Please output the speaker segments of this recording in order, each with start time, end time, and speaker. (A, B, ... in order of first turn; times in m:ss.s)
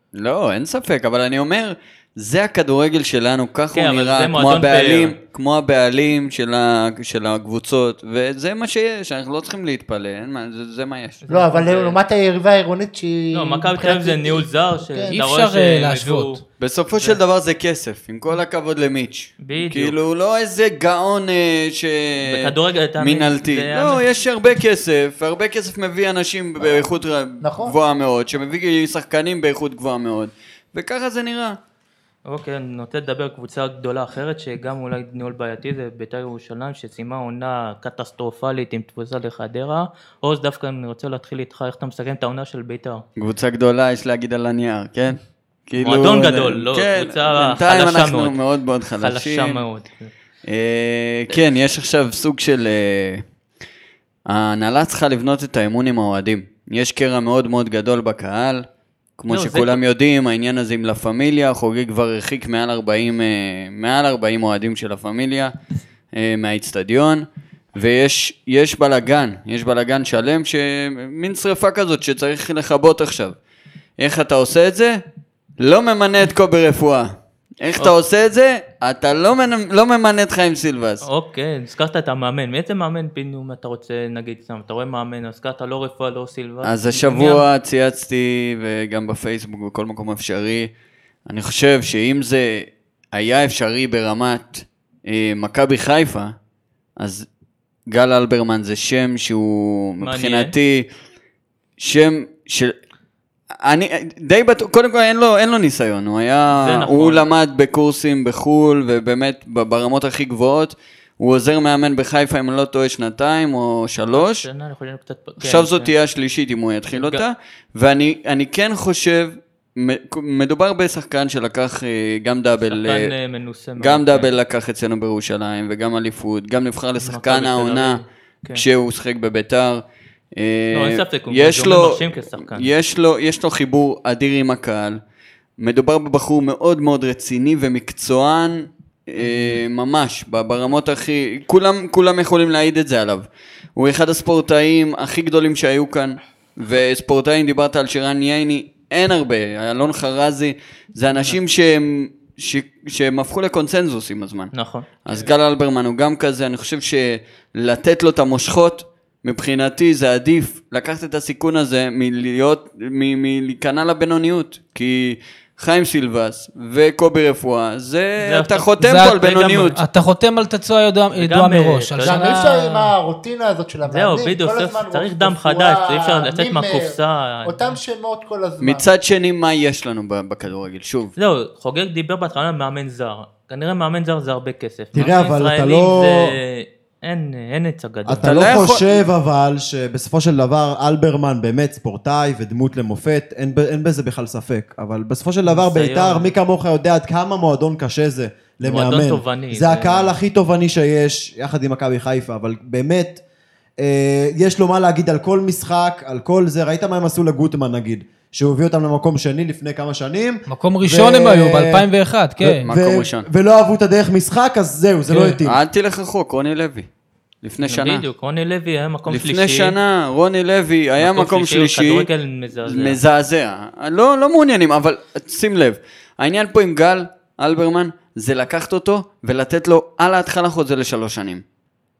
0:00.1-0:11.2 A
0:03.7-0:05.2 B
0:11.2-0:12.0 B
0:11.3-0:15.1 C
0:13.3-0:16.4 B
0:15.1-0:16.4 D
0:16.6-0:31.6 A
0:19.4-0:20.0 B
0:22.2-0:24.0 B
0:27.4-0:27.7 C
0:32.2-0:43.0 B
0:43.2-0:49.6 A
0:45.8-0:48.4 B
0:49.0-0:50.1 B
0:50.4-0:53.2 A
0:54.3-0:58.6 A
0:59.2-1:05.5 A
0:59.3-0:59.8 B
1:06.1-1:13.3 A
1:14.0-1:15.0 A
1:15.6-1:21.0 A
1:21.0-1:27.4 B
1:26.6-1:30.7 A
1:31.2-1:36.3 A
1:37.0-1:37.3 A
1:37.9-1:40.9 A
1:40.0-1:40.5 B
1:41.8-1:42.7 A
1:43.6-1:54.5 A
1:46.5-1:47.2 B
1:54.1-1:55.9 B
1:55.4-2:03.1 A
1:56.9-1:57.2 B
2:02.6-2:04.3 B
2:03.8-2:09.8 A
2:07.0-2:08.6 B
2:10.4-2:15.0 A
2:10.7-2:12.7 B
2:15.6-2:34.5 A
2:19.2-2:19.6 B
2:34.5-2:34.9 B
2:35.0-2:49.8 A
2:48.2-2:49.8 B
2:48.8-2:52.9 D
2:51.1-2:52.6 B
2:52.0-2:58.8 C
2:53.9-2:57.8 B
2:58.6-3:01.1 A
3:01.2-3:08.3 B
3:04.9-3:06.3 E
3:08.0-3:23.2 E
3:08.2-3:09.0 A
3:15.4-3:16.3 B
3:18.6-3:20.1 B
3:23.8-3:31.9 E
3:30.5-3:32.7 D
3:32.4-3:35.6 E
3:32.6-3:33.2 A
3:35.1-3:35.4 D
3:35.4-3:36.9 A
3:37.4-3:38.0 A
3:37.6-3:39.8 B
3:39.1-3:42.1 A
3:41.0-3:43.0 B
3:42.6-3:51.4 A